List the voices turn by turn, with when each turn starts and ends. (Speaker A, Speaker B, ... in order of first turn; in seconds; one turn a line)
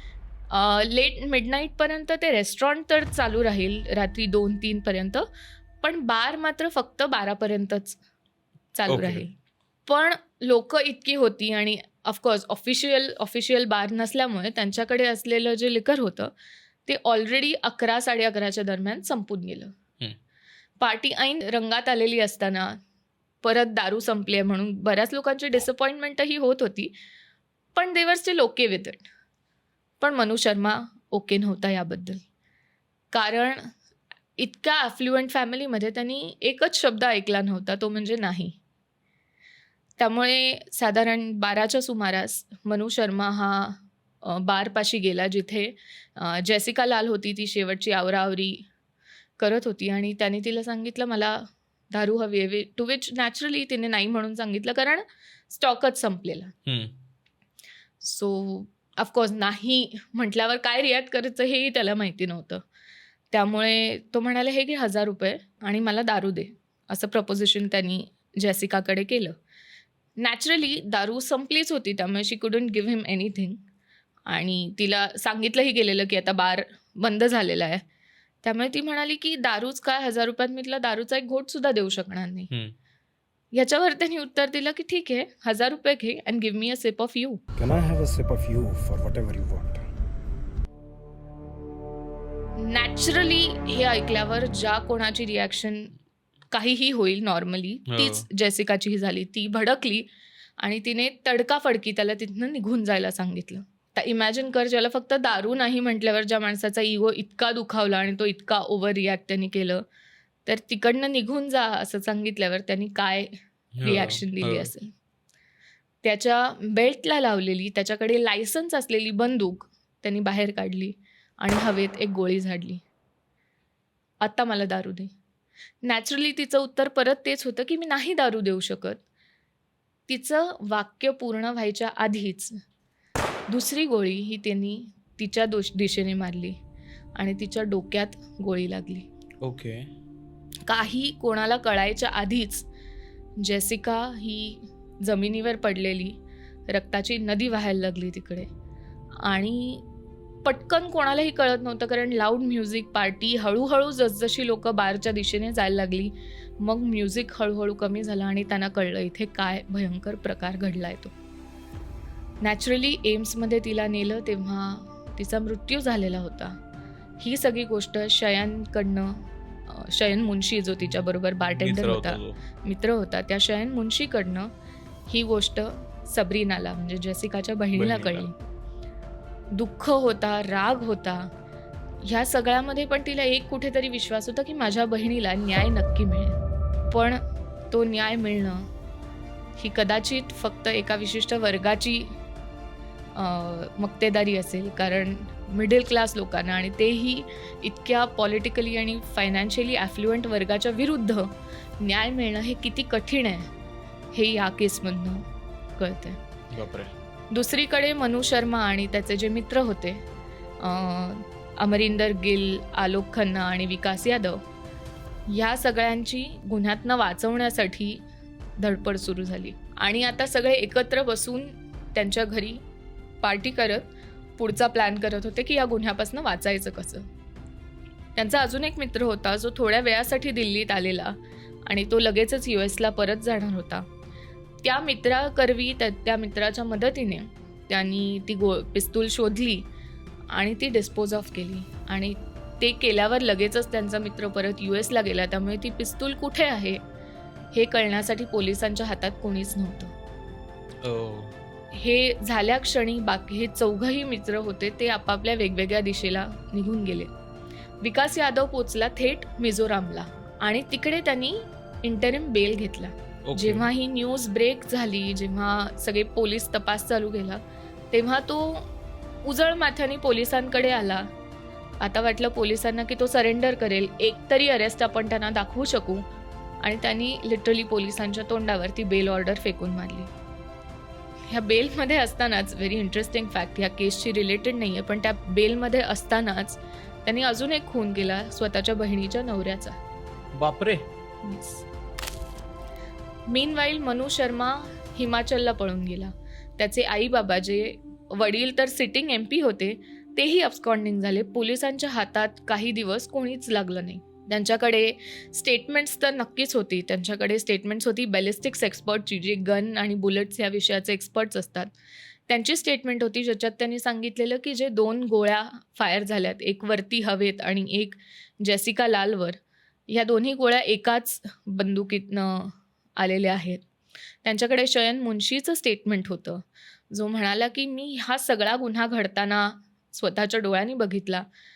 Speaker A: 0.5-5.3
Speaker A: 5.8-8.0
Speaker A: 8.7-9.3
Speaker B: 8.9-9.2
Speaker A: 9.9-16.3
Speaker A: 16.9-19.7
Speaker A: 20.8-22.8
Speaker A: 23.4-26.9
Speaker A: 27.8-29.0
Speaker A: 30.0-32.2
Speaker A: 33.1-33.7
Speaker A: 34.4-38.6
Speaker A: 40.0-48.6
Speaker A: 49.4-56.5
Speaker B: 56.7-57.0
Speaker A: 58.0-62.6
Speaker A: 63.3-69.3
Speaker A: 70.2-73.6
Speaker A: 74.3-77.8
Speaker A: 78.4-82.5
Speaker A: 83.5-87.4
Speaker C: 87.6-89.8
Speaker A: 92.6-95.9
Speaker A: 96.5-100.1
Speaker B: 97.9-98.2
Speaker A: 100.6-109.8
Speaker A: 110.5-113.3
Speaker B: 113.8-114.7
Speaker A: 113.8-114.9
Speaker A: 116.0-122.8
Speaker A: 124.2-125.1
Speaker A: 125.8-129.0
Speaker A: 130.1-132.6
Speaker A: 133.5-136.6
Speaker A: 137.2-139.1
Speaker B: 139.4-139.9
Speaker A: 140.7-142.7
Speaker A: 143.4-148.5
Speaker A: 149.2-149.8
Speaker A: 150.4-161.1
Speaker A: 162.4-166.6
Speaker A: 167.2-174.5
Speaker B: 171.5-172.4
Speaker A: 175.1-178.3
Speaker B: 177.8-178.3
Speaker A: 179.5-181.3
Speaker A: 182.0-186.4
Speaker A: 186.9-188.7
Speaker A: 189.6-192.2
Speaker A: 193.2-203.5
Speaker A: 204.1-206.2
Speaker B: 206.5-206.9
Speaker A: 207.3-210.0
Speaker A: 210.6-214.4
Speaker A: 215.3-218.0
Speaker A: 218.6-222.6
Speaker A: 223.2-227.1
Speaker A: 228.2-233.9
Speaker A: 234.6-239.7
Speaker A: 240.3-246.8
Speaker A: 247.5-249.9
Speaker B: 250.8-251.3
Speaker A: 251.7-257.1
Speaker A: 257.8-267.4
Speaker B: 263.2-263.7
Speaker A: 267.9-268.7
Speaker A: 269.2-271.1
Speaker A: 271.8-276.1
Speaker A: 276.6-280.1
Speaker A: 281.3-289.8
Speaker B: 290.3-290.9
Speaker A: 291.2-291.7
Speaker A: 293.3-311.7
Speaker A: 312.3-319.4
Speaker A: 319.9-323.6
Speaker A: 324.2-331.3